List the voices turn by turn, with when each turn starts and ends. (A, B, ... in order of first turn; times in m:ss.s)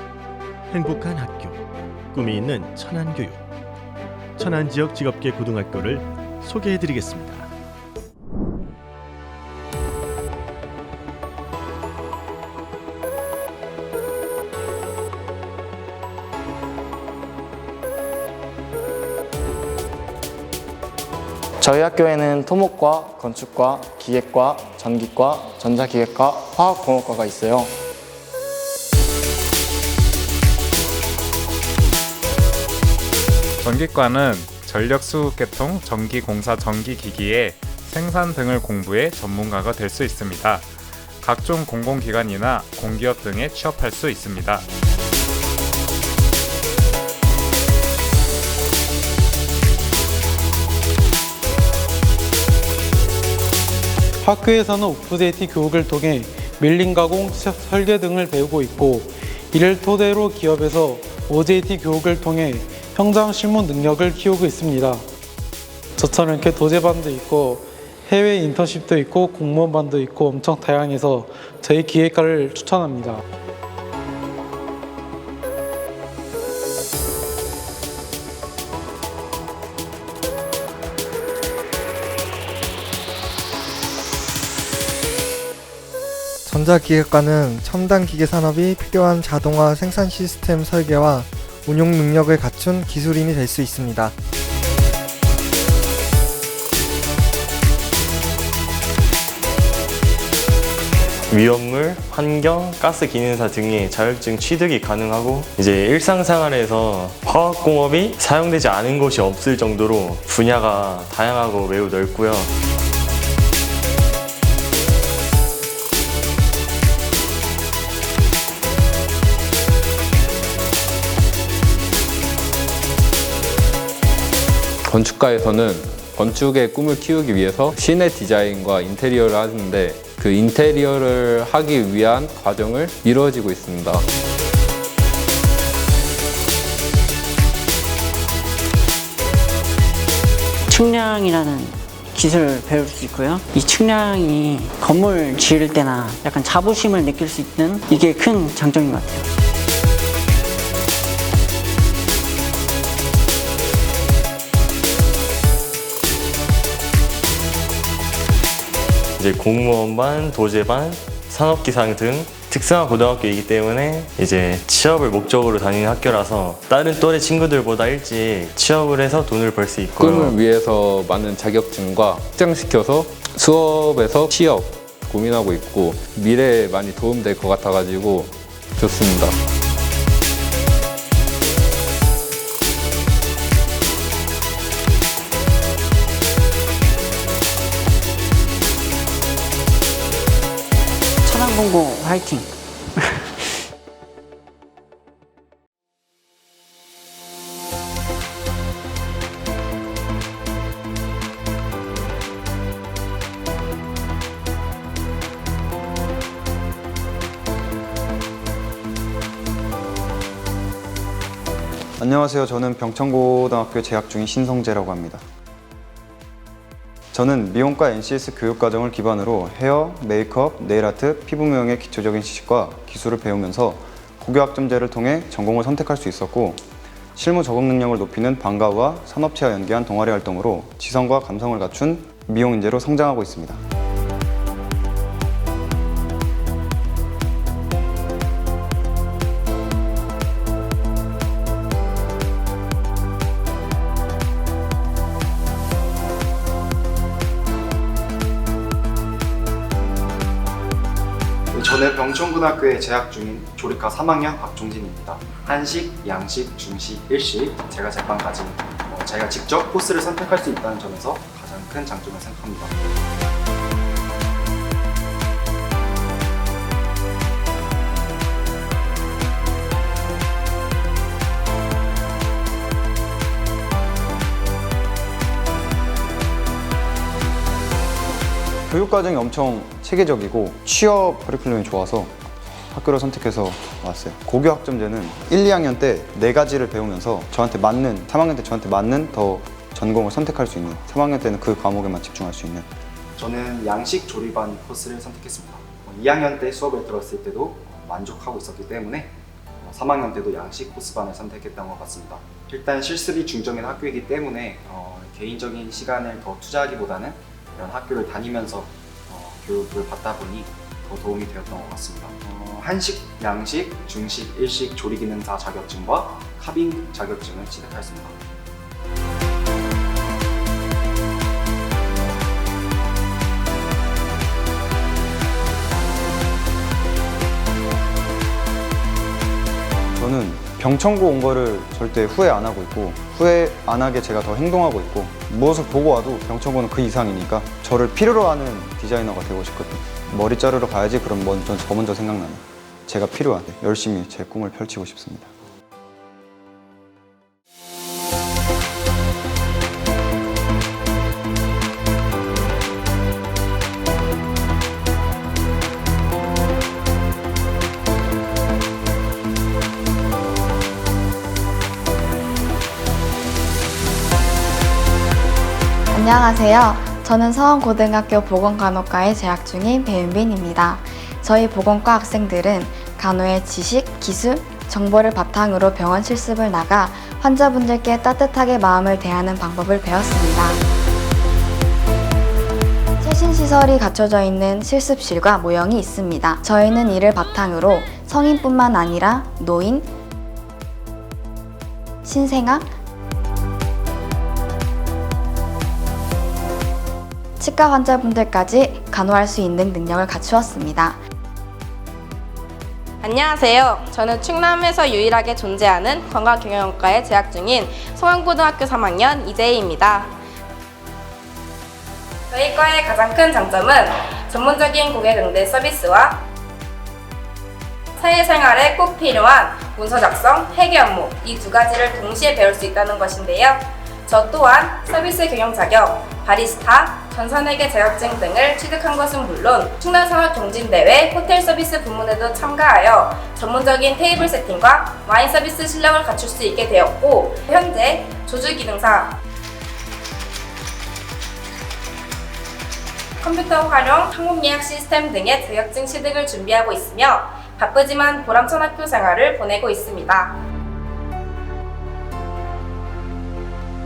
0:00.7-0:01.5 A
0:02.1-0:03.4 A
0:04.4-0:07.4 A
0:21.6-0:27.7 B
0:33.6-0:40.7 C
0:41.2-0:44.6 C
0:54.2-1:05.0 D
1:06.0-1:13.2 D
1:26.4-1:34.1 E
1:41.3-1:52.5 F
2:04.9-2:14.0 G
2:20.7-2:29.2 H
2:39.2-2:50.4 F
2:50.0-2:59.3 G
3:11.2-3:12.4 H
3:32.0-3:35.2 I
3:37.1-3:46.6 I
3:47.2-3:53.6 I
4:11.5-4:22.7 J
4:38.7-4:42.1 I
4:42.7-4:52.7 I
4:53.2-4:59.1 J
4:59.6-5:18.2 J
5:30.0-5:45.3 I
6:05.9-6:20.6 K
6:23.0-6:29.9 K
6:32.0-6:32.7 K
6:37.4-6:41.0 K
6:43.0-6:50.1 L
6:52.3-6:56.2 L
6:58.0-7:19.2 L
7:23.2-7:30.4 L